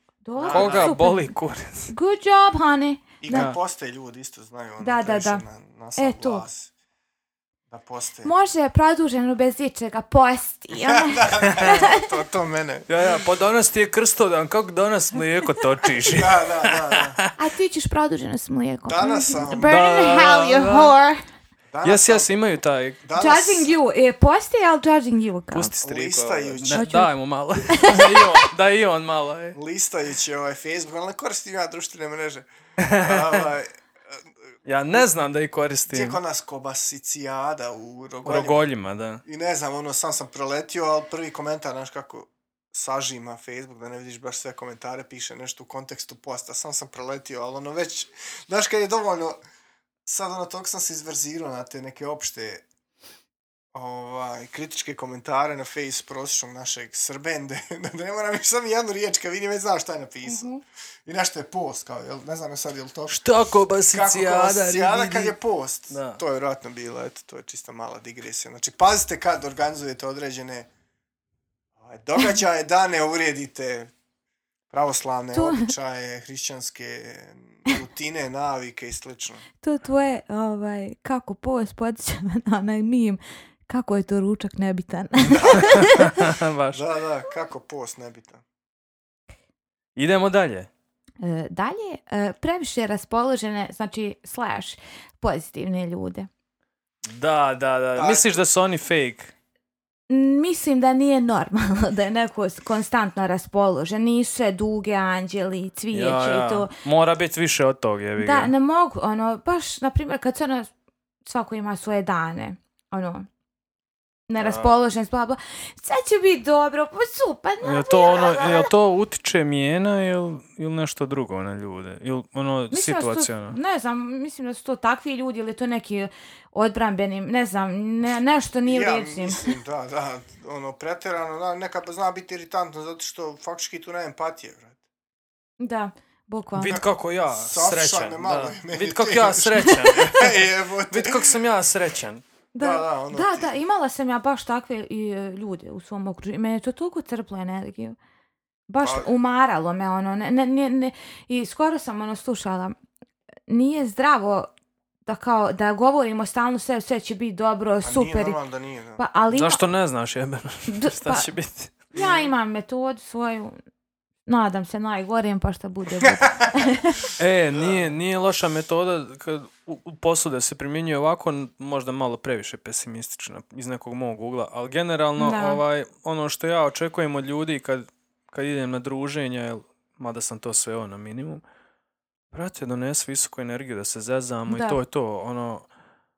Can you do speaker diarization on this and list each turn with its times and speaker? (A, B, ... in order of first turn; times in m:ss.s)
0:00.2-0:01.3 A
0:00.4-0:01.0 B
0:00.5-0:01.9 C
0:01.9-0:03.4 A
0:03.2-0:06.7 B
0:03.3-0:03.6 C
0:04.8-0:05.4 A
0:06.0-0:06.4 A
0:07.7-0:08.3 B
0:08.2-0:12.1 A
0:10.8-0:13.1 B
0:11.4-0:11.8 C
0:12.9-0:17.3 C
0:16.0-0:17.2 B
0:17.4-0:21.2 A
0:18.9-0:19.7 B
0:19.5-0:20.9 C
0:21.7-0:22.3 B
0:21.8-0:23.0 C
0:23.0-0:23.7 B
0:23.2-0:25.7 A
0:25.5-0:29.6 C
0:25.8-0:26.9 B
0:26.7-0:27.1 A
0:27.6-0:28.4 A
0:29.5-0:32.5 B
0:32.8-0:33.5 C
0:33.0-0:34.2 B
0:34.6-0:36.2 C
0:35.9-0:38.7 B
0:38.2-0:39.2 C
0:39.2-0:49.4 B
0:50.0-0:52.6 B
0:53.7-1:00.5 B
1:00.2-1:00.6 A
1:01.0-1:03.2 B
1:03.1-1:05.3 C
1:03.9-1:10.7 B
1:05.9-1:06.2 C
1:11.8-1:13.9 B
1:14.7-1:19.4 B
1:15.3-1:15.7 A
1:19.6-1:26.2 A
1:25.3-1:26.8 C
1:25.4-1:25.7 B
1:26.7-1:28.4 B
1:30.0-1:30.7 C
1:31.2-1:36.3 A
1:37.0-1:39.3 C
1:37.9-1:38.4 B
1:40.1-1:46.7 A
1:45.9-1:48.5 C
1:48.2-1:50.7 A
1:51.2-1:53.3 A
1:54.3-1:58.7 A
1:54.4-1:54.7 C
1:57.6-2:03.6 C
2:02.7-2:09.5 A
2:08.6-2:14.8 B
2:15.6-2:16.8 A
2:16.6-2:22.2 C
2:16.7-2:21.4 B
2:22.5-2:28.0 A
2:22.6-2:23.5 B
2:28.7-2:32.7 A
2:28.8-2:29.1 B
2:33.5-2:34.5 A
2:35.0-2:38.4 A
2:37.8-2:39.0 B
2:39.0-2:39.6 A
2:39.3-2:41.8 C
2:40.7-2:41.3 A
2:41.9-2:43.6 A
2:41.9-2:42.3 B
2:44.3-2:47.1 A
2:47.2-3:01.4 C
2:47.5-2:47.9 B
2:55.2-2:55.6 A
3:02.3-3:05.6 C
3:04.5-3:04.8 A